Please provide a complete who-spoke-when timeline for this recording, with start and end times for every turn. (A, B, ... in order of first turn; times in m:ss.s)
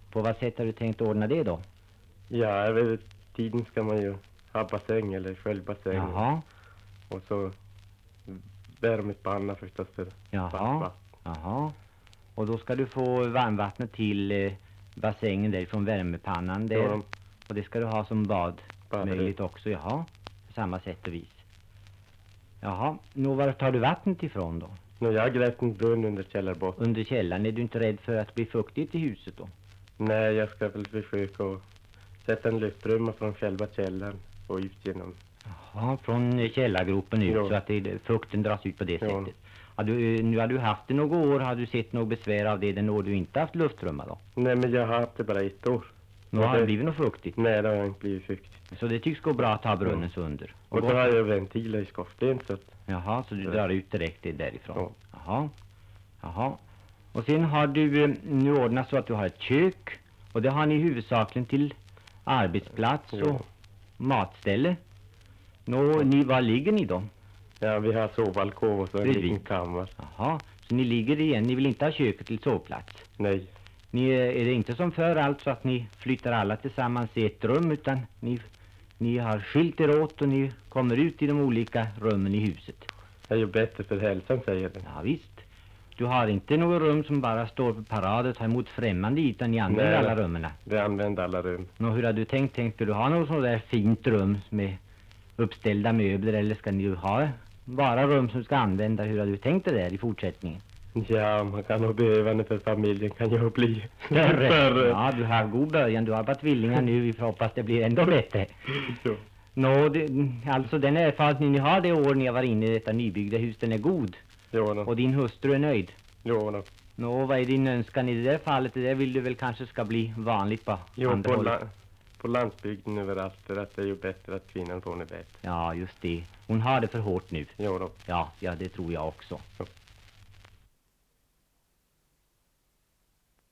0:00.1-0:01.6 A
0:02.3-0:06.2 B
0:05.9-0:06.4 A
0:07.1-0:07.6 B
0:08.3-0:11.0 B
0:10.3-0:11.8 A
0:12.4-0:21.4 A
0:16.7-0:17.0 B
0:18.9-0:19.3 B
0:22.6-0:24.8 A
0:25.0-0:26.8 B
0:26.8-0:29.5 A
0:30.0-0:31.6 B
0:32.2-0:35.2 B
0:35.5-0:44.2 A
0:37.3-0:37.6 B
0:39.0-0:39.3 B
0:44.4-0:46.7 B
0:46.3-0:47.4 A
0:47.4-0:48.6 B
0:48.7-0:51.1 A
0:50.7-0:52.7 B
0:52.9-0:55.5 A
0:56.2-0:56.6 A
0:57.1-1:01.8 A
1:02.3-1:03.4 A
1:04.0-1:04.8 A
1:05.7-1:07.1 A
1:07.6-1:10.0 B
1:09.0-1:09.4 A
1:10.0-1:13.1 A
1:13.2-1:13.5 B
1:13.9-1:18.5 A
1:19.0-1:22.9 A
1:23.3-1:24.8 B
1:24.8-1:25.4 A
1:26.0-1:30.6 A
1:29.7-1:31.7 B
1:31.8-1:34.8 A
1:35.4-1:40.6 A
1:41.0-1:45.0 B
1:44.1-1:48.9 A
1:48.9-1:49.2 B
1:49.6-1:54.2 A
1:54.5-1:54.9 B
1:54.9-1:55.9 A
1:56.2-1:56.7 B
1:57.0-2:01.6 A
2:01.0-2:01.7 B
2:02.2-2:05.4 B
2:05.4-2:07.6 A
2:07.6-2:08.0 B
2:08.1-2:09.4 A